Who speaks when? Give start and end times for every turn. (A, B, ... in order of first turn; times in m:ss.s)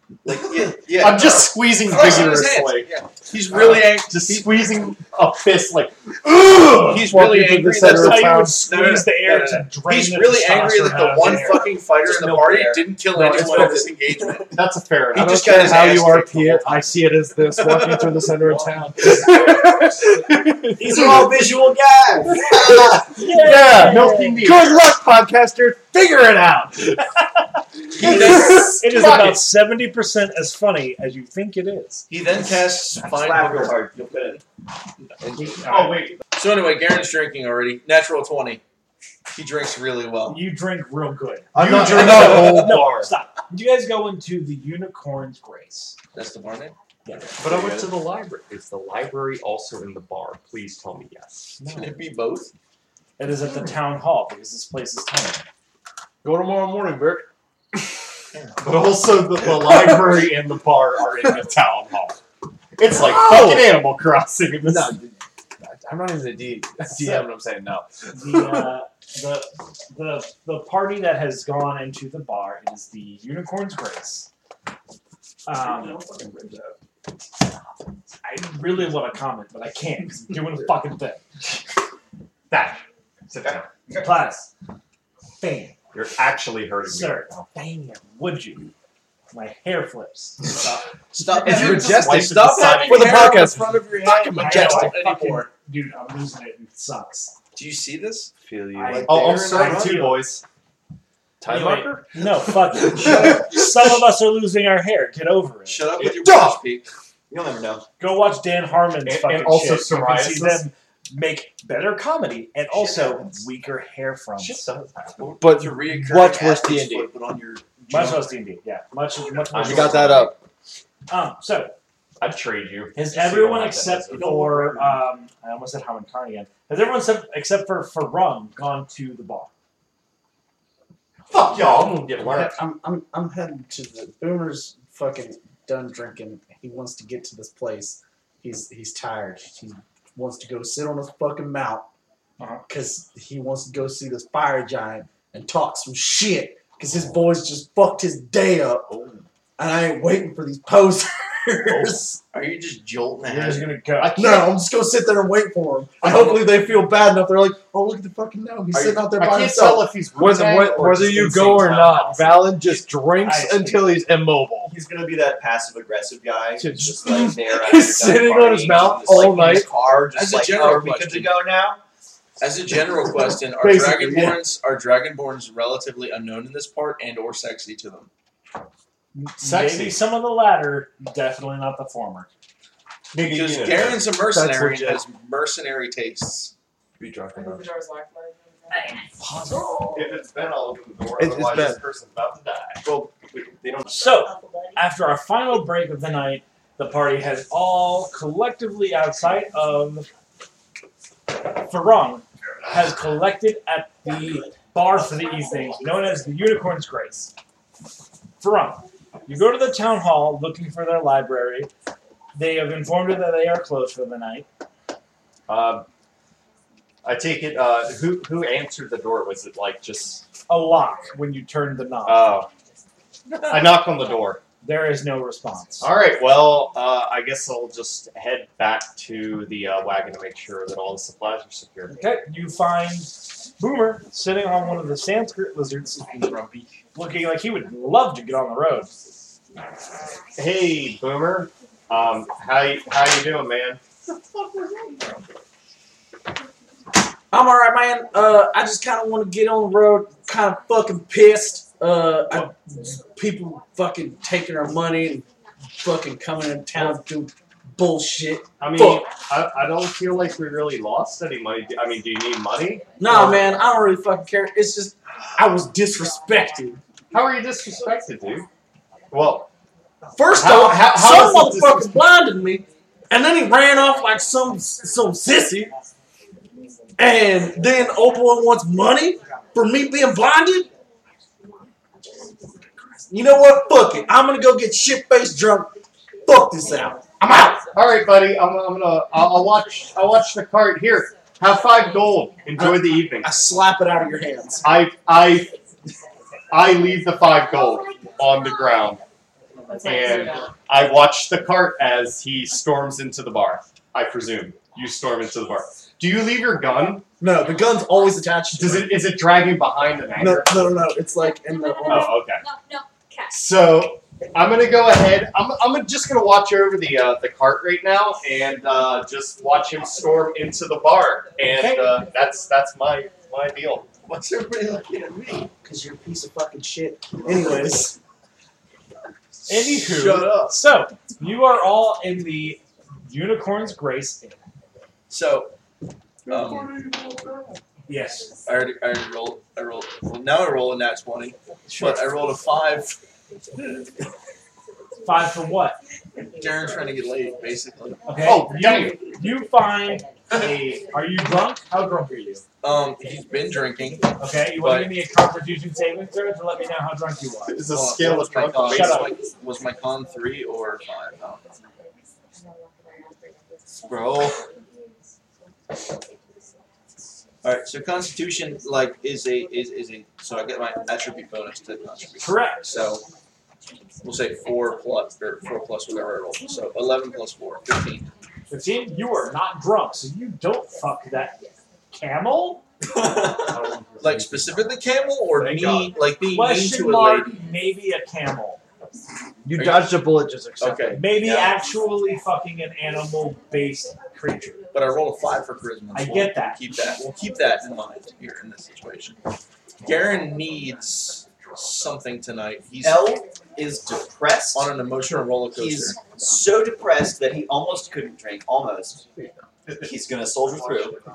0:00.2-0:01.3 A
0:00.6-0:04.8 B
0:00.8-0:07.1 C
0:06.4-0:08.6 D
0:06.8-0:14.5 B
0:07.8-0:11.7 E
0:13.0-0:13.9 D
0:13.2-0:13.8 C
0:14.5-0:15.9 C
0:15.1-0:16.9 B
0:15.1-0:21.4 D
0:17.7-0:18.0 B
0:20.8-0:21.3 E
0:20.9-0:21.4 C
0:22.4-0:24.9 C
0:23.1-0:24.4 E
0:23.5-0:27.0 D
0:27.9-0:29.4 C
0:28.0-0:28.8 B
0:28.0-0:32.1 E
0:32.1-0:33.9 B
0:33.0-0:34.4 A
0:35.4-0:36.0 E
0:35.6-0:36.2 C
0:36.3-0:38.6 B
0:39.3-0:40.4 B
0:40.3-0:46.0 E
0:41.5-0:43.1 C
0:41.5-0:42.7 D
0:46.1-0:46.7 B
0:47.0-0:47.3 E
0:47.4-0:51.8 C
0:51.6-0:51.9 E
0:51.7-0:52.5 B
0:53.2-0:55.4 E
0:56.2-0:57.3 D
0:58.6-1:02.2 C
1:02.8-1:05.0 C
1:02.9-1:03.8 D
1:04.6-1:08.7 D
1:08.1-1:14.3 E
1:15.4-1:16.0 E
1:15.9-1:16.7 A
1:18.2-1:21.2 E
1:22.5-1:23.6 C
1:23.4-1:24.1 A
1:24.0-1:24.5 E
1:25.4-1:25.8 E
1:25.9-1:27.5 C
1:26.8-1:28.7 E
1:29.3-1:30.8 E
1:30.6-1:35.5 B
1:31.4-1:33.4 C
1:31.4-1:34.8 D
1:34.3-1:37.3 E
1:37.5-1:38.3 B
1:38.4-1:39.6 D
1:38.7-1:40.4 E
1:39.0-1:40.4 C
1:41.4-1:41.9 D
1:41.5-1:45.8 E
1:45.6-1:46.9 B
1:46.0-1:46.6 C
1:47.3-1:47.9 A
1:48.0-1:54.6 E
1:49.0-1:50.7 C
1:52.8-1:53.2 A
1:54.4-1:55.4 C
1:55.2-1:58.4 B
1:55.4-1:57.1 D
1:57.9-2:00.3 E
1:59.5-2:00.3 C
1:59.6-2:00.3 D
2:01.1-2:01.7 E
2:02.2-2:04.5 C
2:02.9-2:09.5 E
2:11.3-2:12.6 C
2:11.5-2:21.9 F
2:22.4-2:22.6 E
2:22.7-2:28.9 F
2:29.6-2:32.1 F
2:31.6-2:32.2 C
2:32.3-2:33.7 B
2:33.2-2:34.2 E
2:34.0-2:34.6 C
2:34.1-2:39.9 F
2:36.0-2:36.6 C
2:38.8-2:42.6 C
2:40.1-2:44.7 D
2:43.2-2:44.0 E
2:44.6-2:51.8 A
2:46.6-2:49.7 D
2:48.4-2:51.4 B
2:52.4-2:58.1 B
2:53.6-2:54.4 D
2:59.1-3:02.3 E
2:59.4-3:00.0 C
3:03.1-3:04.1 C
3:03.2-3:06.5 B
3:03.7-3:05.0 D
3:07.0-3:07.6 D
3:07.3-3:09.0 G
3:09.2-3:10.0 E
3:09.9-3:13.9 C
3:11.2-3:11.8 D
3:12.8-3:13.2 A
3:13.9-3:20.1 E
3:21.5-3:27.3 E
3:28.4-3:31.7 E
3:32.3-3:34.5 E
3:35.5-3:35.8 C
3:37.0-3:40.2 C
3:40.5-3:42.4 E
3:42.0-3:42.5 C
3:43.4-3:44.4 C
3:44.6-3:45.9 E
3:45.8-3:52.0 C
3:51.9-3:56.4 E
3:56.2-3:56.7 B
3:56.9-3:58.9 E
4:00.3-4:03.8 C
4:07.3-4:15.2 F
4:15.8-4:19.1 F
4:18.6-4:23.5 C
4:23.0-4:26.8 F
4:27.1-4:28.5 C
4:29.1-4:29.5 C
4:30.1-4:35.7 F
4:30.3-4:31.9 C
4:37.0-4:40.7 F
4:43.1-4:45.7 F
4:46.2-4:47.7 F
4:47.7-4:53.3 C
4:52.6-4:54.8 F
4:54.6-4:55.5 C
4:56.5-4:59.0 C
4:59.7-5:00.5 G
4:59.8-5:07.0 C
5:07.2-5:09.2 F
5:08.5-5:10.8 C
5:10.1-5:12.2 F
5:11.9-5:12.4 C
5:13.3-5:24.0 C
5:21.5-5:22.0 E
5:24.0-5:25.5 B
5:25.6-5:28.0 F
5:29.5-5:30.6 B
5:29.5-5:34.4 E
5:35.1-5:35.5 B
5:36.3-5:36.7 B
5:37.9-5:38.4 E
5:38.4-5:43.0 B
5:45.0-5:45.8 E
5:46.4-5:48.1 B
5:48.1-5:52.4 E
5:48.2-5:49.0 C
5:50.3-5:50.8 C
5:52.6-5:54.9 B
5:54.2-5:57.6 E
5:57.5-5:59.2 C
5:57.7-6:01.5 B
5:58.5-5:59.2 E
6:07.4-6:13.0 B
6:12.2-6:12.7 E
6:14.0-6:18.1 B
6:18.5-6:21.4 E
6:21.9-6:22.6 E
6:23.0-6:23.5 A
6:23.8-6:24.2 D
6:24.0-6:27.3 B
6:25.3-6:25.9 C
6:26.3-6:28.6 E
6:29.4-6:31.1 D
6:29.5-6:31.6 B
6:30.9-6:34.6 E
6:34.7-6:39.2 B
6:35.9-6:36.6 E
6:39.8-6:43.2 B
6:42.8-6:44.7 A
6:44.5-6:46.1 B
6:45.5-6:49.0 A
6:49.7-6:51.0 A